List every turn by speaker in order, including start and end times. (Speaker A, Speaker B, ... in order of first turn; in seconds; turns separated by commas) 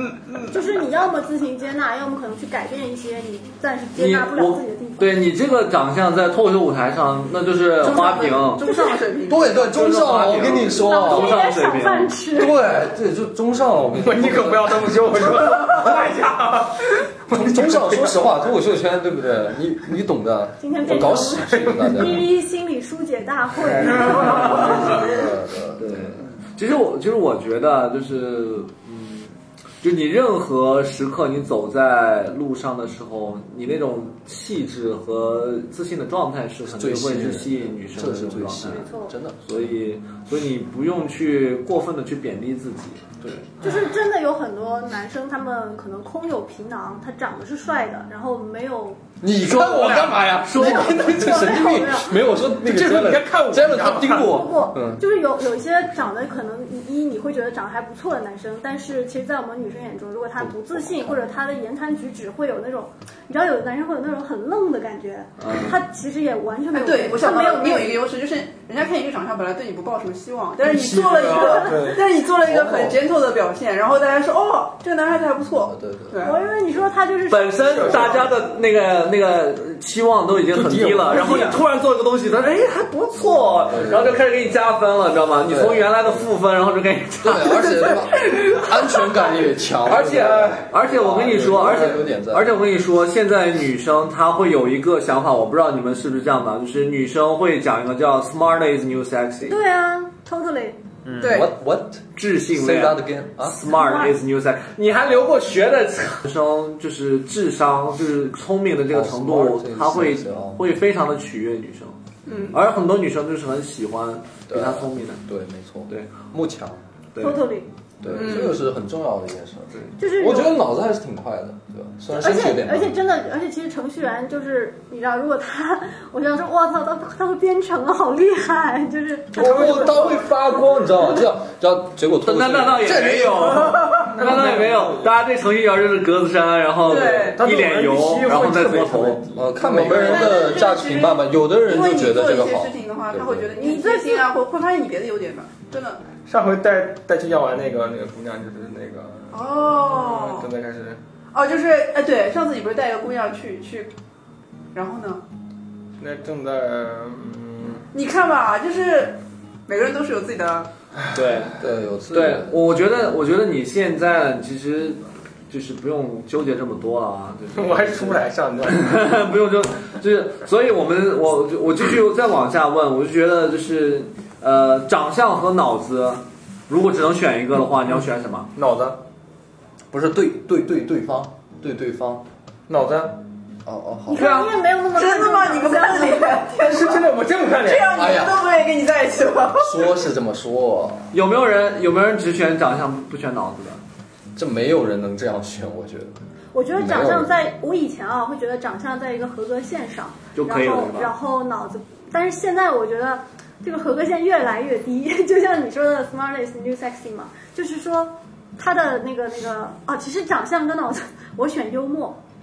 Speaker A: 0.5-5.1, Speaker B: 4.0-8.6, Speaker C: 7.8-9.8, Speaker A: 8.6-9.0, Speaker D: 9.3-11.4, Speaker B: 9.6-12.1, Speaker A: 10.7-12.6, Speaker D: 12.3-15.6, Speaker E: 14.0-18.4, Speaker D: 17.3-22.2, Speaker A: 20.6-25.1, Speaker E: 21.5-22.1, Speaker D: 23.8-26.3, Speaker B: 25.8-38.9, Speaker D: 36.6-39.7, Speaker A: 38.6-39.1, Speaker B: 39.4-43.2, Speaker D: 43.2-43.5, Speaker A: 43.6-49.0, Speaker D: 49.2-55.0, Speaker E: 49.6-50.1, Speaker B: 49.7-51.1, Speaker A: 50.6-52.2, Speaker E: 52.5-54.4, Speaker A: 54.2-68.0, Speaker D: 60.4-61.2, Speaker B: 65.4-65.7, Speaker C: 66.7-76.4, Speaker E: 70.6-72.1, Speaker D: 72.4-73.0, Speaker D: 75.7-76.4, Speaker A: 76.2-78.2, Speaker B: 77.3-87.7, Speaker E: 77.6-78.4, Speaker D: 80.6-81.4, Speaker E: 80.7-81.5, Speaker D: 83.7-84.2, Speaker D: 85.4-85.9, Speaker D: 87.2-92.5, Speaker B: 89.9-99.6, Speaker E: 90.0-90.6, Speaker A: 99.4-100.8, Speaker B: 101.0-101.5, Speaker D: 101.2-103.6, Speaker B: 102.2-112.0, Speaker A: 103.6-104.1, Speaker D: 108.9-110.6, Speaker C: 112.2-112.6, Speaker B: 112.5-115.2, Speaker D: 114.5-116.8, Speaker B: 115.9-116.2, Speaker B: 117.1-117.5, Speaker A: 117.2-117.7, Speaker D: 118.0-123.0, Speaker C: 118.1-118.6, Speaker A: 120.0-120.6, Speaker A: 122.1-130.2, Speaker D: 129.3-133.9, Speaker E: 129.4-130.2, Speaker B: 132.2-139.2, Speaker E: 134.0-135.1, Speaker C: 136.8-137.4, Speaker E: 137.3-140.6, Speaker D: 139.3-143.5, Speaker C: 139.9-146.0, Speaker A: 143.6-144.3, Speaker E: 146.3-151.0, Speaker C: 149.3-150.5, Speaker C: 151.3-153.9, Speaker C: 154.7-155.2, Speaker E: 156.0-157.8, Speaker C: 157.9-160.7, Speaker B: 161.1-178.5, Speaker D: 161.6-162.6, Speaker E: 167.5-168.9, Speaker E: 178.6-179.0, Speaker D: 179.9-182.2, Speaker E: 182.7-183.2, Speaker D: 183.6-184.3, Speaker A: 184.1-186.4, Speaker B: 184.1-184.5, Speaker C: 184.9-189.9, Speaker E: 186.6-188.0, Speaker D: 187.9-188.4, Speaker D: 189.6-191.1, Speaker B: 191.1-193.8, Speaker D: 194.3-196.2, Speaker A: 196.5-212.2, Speaker D: 196.7-197.3, Speaker B: 200.3-201.1